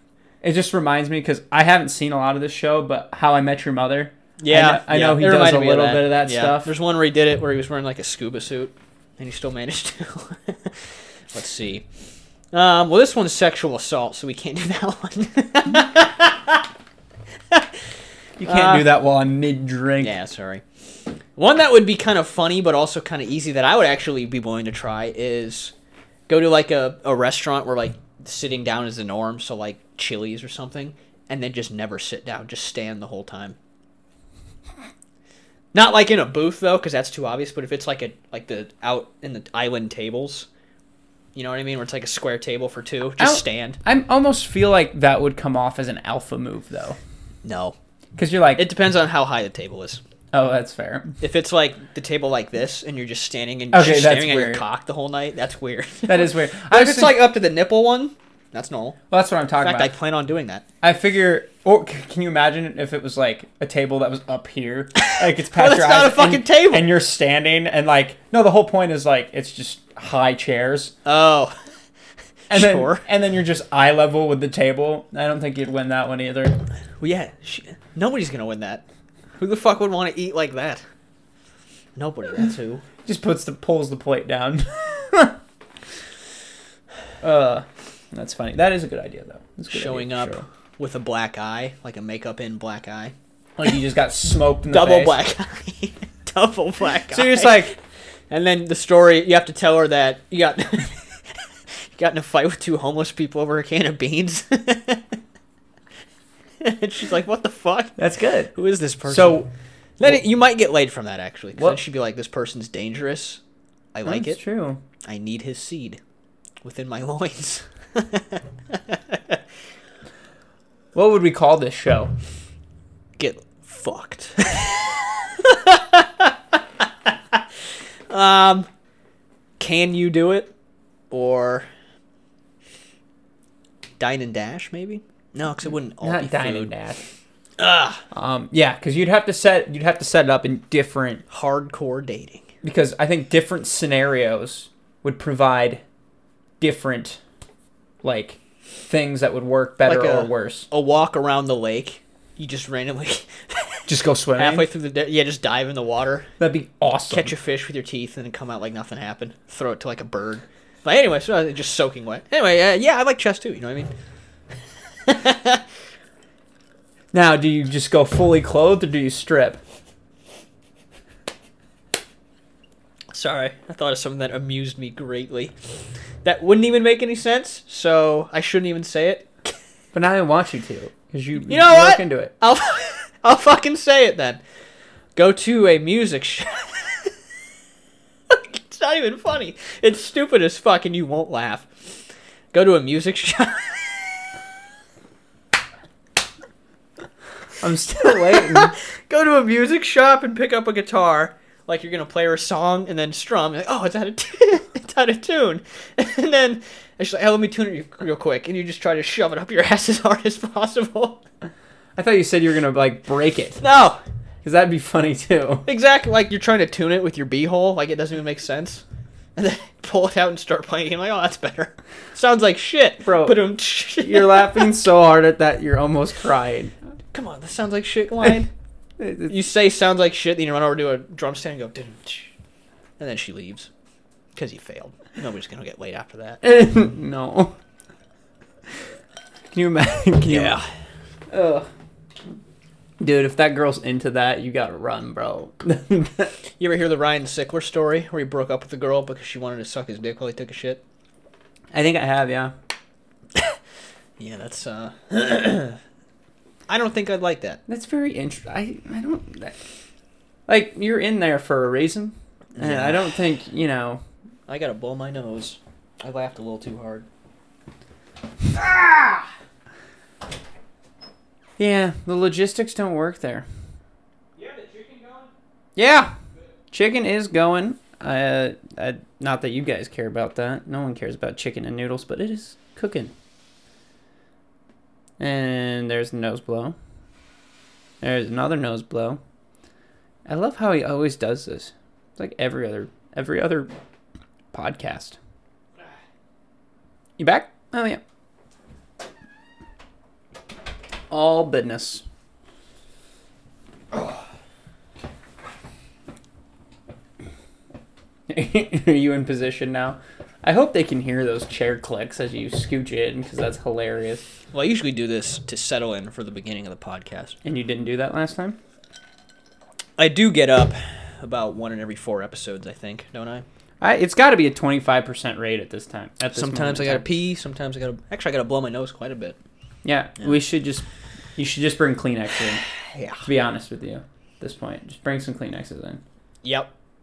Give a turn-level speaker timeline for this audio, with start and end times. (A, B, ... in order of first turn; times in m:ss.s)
0:00.4-0:06.7 A
0:04.4-0:11.9 B
0:12.5-0:16.7 B
0:17.5-0:17.8 B
0:18.4-0:20.1 A
0:18.4-0:18.9 B
0:20.0-0:20.6 B
0:21.4-0:25.7 B
0:26.3-0:33.6 B
0:35.7-0:40.5 B
0:41.4-0:43.8 B
0:43.2-0:47.0 A
0:47.4-0:47.8 B
0:48.2-0:48.7 A
0:48.6-0:50.0 B
0:50.3-0:51.2 A
0:51.2-0:59.0 B
0:53.7-0:54.6 A
0:56.1-0:57.2 A
0:59.1-0:59.9 A
0:59.6-1:00.6 B
1:00.8-1:10.9 A
1:05.1-1:06.9 B
1:11.0-1:11.5 B
1:12.5-1:16.6 A
1:12.5-1:13.0 B
1:17.0-1:18.8 B
1:19.4-1:20.8 B
1:22.0-1:22.8 B
1:23.0-1:25.4 A
1:27.2-1:30.5 A
1:29.7-1:33.1 B
1:33.6-1:35.2 A
1:34.7-1:37.7 B
1:37.1-1:37.7 A
1:38.3-1:45.2 B
1:46.6-1:48.0 B
1:48.0-1:48.5 A
1:48.5-1:49.4 B
1:49.1-1:49.5 A
1:50.0-1:53.4 B
1:53.9-1:54.4 B
1:54.0-1:54.8 A
1:55.0-1:56.0 B
1:56.6-1:59.4 B
2:01.0-2:02.1 A
2:03.2-2:07.4 B
2:08.1-2:08.7 B
2:09.6-2:10.5 B
2:11.1-2:11.7 B
2:14.0-2:16.7 B
2:16.0-2:17.0 A
2:17.6-2:18.0 B
2:18.1-2:21.2 A
2:21.3-2:22.5 B
2:22.6-2:25.8 A
2:26.6-2:27.2 A
2:28.0-2:30.7 A
2:29.8-2:36.3 B
2:33.9-2:34.7 A
2:36.4-2:37.3 A
2:37.1-2:43.9 B
2:45.0-2:45.6 B
2:47.1-2:49.6 A
2:53.1-2:55.6 B
2:56.2-2:59.5 B
2:59.9-3:02.3 A
3:01.5-3:04.4 B
3:05.2-3:07.1 B
3:08.3-3:12.0 B
3:12.5-3:14.3 B
3:17.6-3:18.8 A
3:18.0-3:31.2 B
3:32.0-3:33.6 A
3:33.6-3:34.0 B
3:34.4-3:35.7 A
3:35.7-3:38.8 B
3:39.4-3:44.7 B
3:43.0-3:43.4 A
3:44.0-3:46.7 A
3:47.1-3:48.5 B
3:49.0-3:49.4 A
3:49.3-3:52.3 B
3:53.0-3:53.7 B
3:54.4-3:56.4 B
3:56.4-3:57.6 A
3:59.5-4:00.6 A
4:00.3-4:00.7 B
4:01.3-4:01.7 A
4:03.0-4:06.3 A
4:06.6-4:10.8 B
4:11.7-4:12.5 A
4:14.2-4:15.8 B
4:16.7-4:17.6 B
4:17.7-4:19.6 A
4:20.5-4:24.0 A
4:22.6-4:23.2 B
4:24.5-4:27.1 B
4:28.5-4:29.3 B
4:31.6-4:33.5 A
4:34.4-4:35.3 B
4:35.8-4:36.2 A
4:36.7-4:43.1 A
4:45.2-4:46.8 A
4:48.0-4:49.2 A
4:50.3-4:53.7 A
4:54.5-4:55.2 A
4:57.2-4:58.0 A
5:01.1-5:02.0 A
5:08.3-5:14.2 A
5:14.5-5:17.4 B
5:17.4-5:18.6 A
5:20.0-5:23.4 B
5:23.8-5:27.0 A
5:26.3-5:29.4 B
5:29.8-5:30.8 A
5:31.4-5:32.6 A
5:32.9-5:33.2 B
5:33.2-5:36.0 A
5:36.4-5:36.7 B